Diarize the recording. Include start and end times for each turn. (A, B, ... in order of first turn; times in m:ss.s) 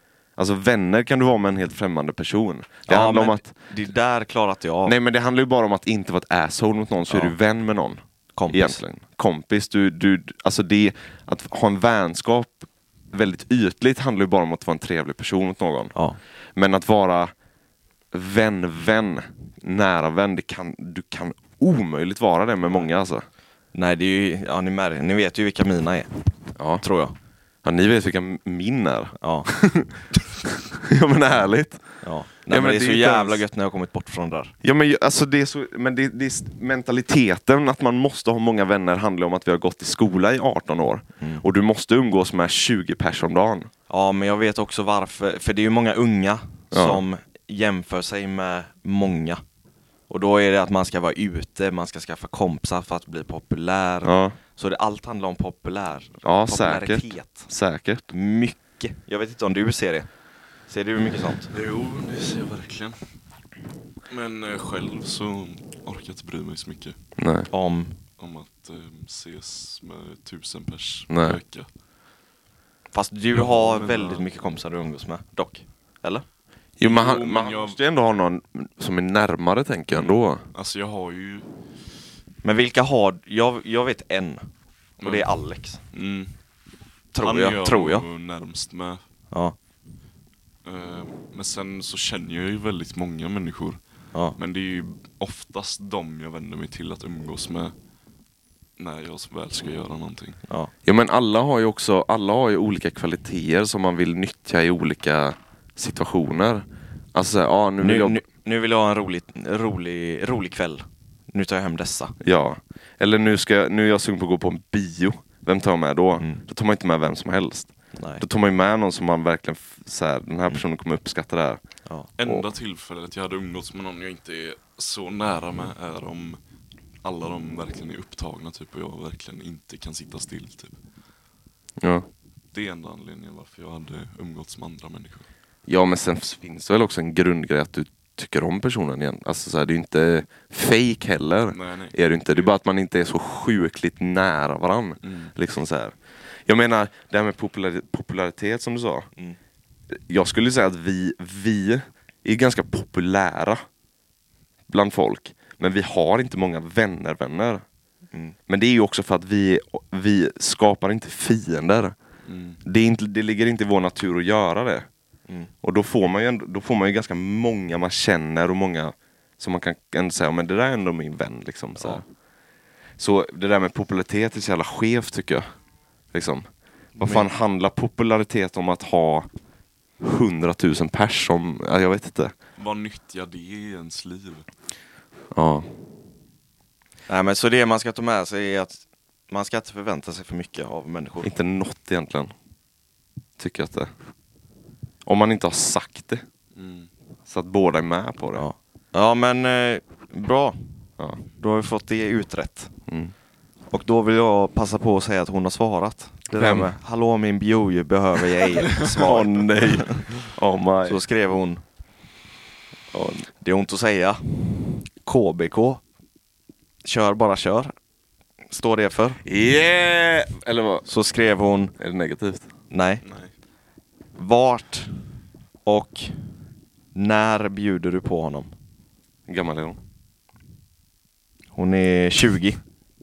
0:00.4-0:03.5 A
0:02.9-0:04.9 B
0:04.8-0:15.9 A
0:07.1-0:07.3 B
0:08.4-0:08.8 B
0:16.6-0:17.3 A
0:18.1-0:23.2 A
0:23.7-0:26.1 B
0:26.6-0:26.8 A
0:26.8-0:27.1 B
0:27.6-0:31.8 A
0:29.2-0:29.5 B
0:32.0-0:34.5 B
0:32.5-0:33.4 A
0:34.6-0:43.7 A
0:43.9-0:49.4 B
0:46.7-0:47.0 A
0:50.1-0:57.5 B
0:54.0-0:54.4 A
0:56.2-0:58.1 A
0:58.1-1:00.1 B
1:00.7-1:01.5 B
1:01.5-1:03.0 C
1:04.1-1:07.0 C
1:07.2-1:07.5 A
1:07.5-1:08.0 B
1:08.2-1:11.7 C
1:11.1-1:11.4 A
1:12.9-1:16.2 B
1:13.3-1:14.2 C
1:16.8-1:20.4 A
1:16.8-1:17.8 C
1:19.9-1:21.5 C
1:22.4-1:24.4 B
1:25.0-1:25.3 C
1:25.0-1:25.8 B
1:25.9-1:26.3 C
1:27.1-1:28.0 B
1:27.2-1:29.0 C
1:30.6-1:33.8 C
1:34.4-1:37.7 C
1:38.8-1:40.4 C
1:40.8-1:48.2 A
1:47.8-1:52.1 B
1:52.2-2:01.6 A
1:57.9-1:58.2 B
2:02.2-2:06.4 C
2:07.0-2:10.8 C
2:11.8-2:12.1 A
2:12.5-2:15.3 C
2:15.7-2:25.9 A
2:21.5-2:22.5 C
2:25.0-2:25.3 C
2:26.4-2:29.1 A
2:29.9-2:33.6 A
2:34.7-2:37.6 A
2:38.5-2:41.9 A
2:42.2-2:42.6 C
2:42.6-2:44.9 A
2:45.6-2:52.0 A
2:53.0-2:55.4 A
2:56.1-2:56.4 A
2:57.0-2:59.3 A
2:57.0-2:57.2 B
3:00.0-3:02.3 A
3:02.6-3:04.5 C
3:05.3-3:05.7 A
3:07.1-3:11.3 B
3:11.2-3:12.3 A
3:13.4-3:13.9 A
3:15.0-3:16.2 A
3:16.5-3:16.9 C
3:17.3-3:18.4 A
3:18.3-3:20.6 B
3:21.4-3:22.7 B
3:22.9-3:23.1 A
3:23.7-3:30.2 B
3:26.3-3:26.7 A
3:28.8-3:31.0 A
3:30.8-3:31.6 B
3:32.9-3:33.2 A
3:33.4-3:35.8 B
3:36.8-3:37.7 B
3:38.5-3:39.2 B
3:39.2-3:40.8 A
3:40.8-3:41.7 B
3:41.8-3:42.5 A
3:42.7-3:43.0 B
3:43.0-3:43.3 C
3:44.2-3:44.9 B
3:45.6-3:46.1 B
3:46.9-3:48.5 B
3:49.3-3:49.8 A
3:51.5-3:52.6 B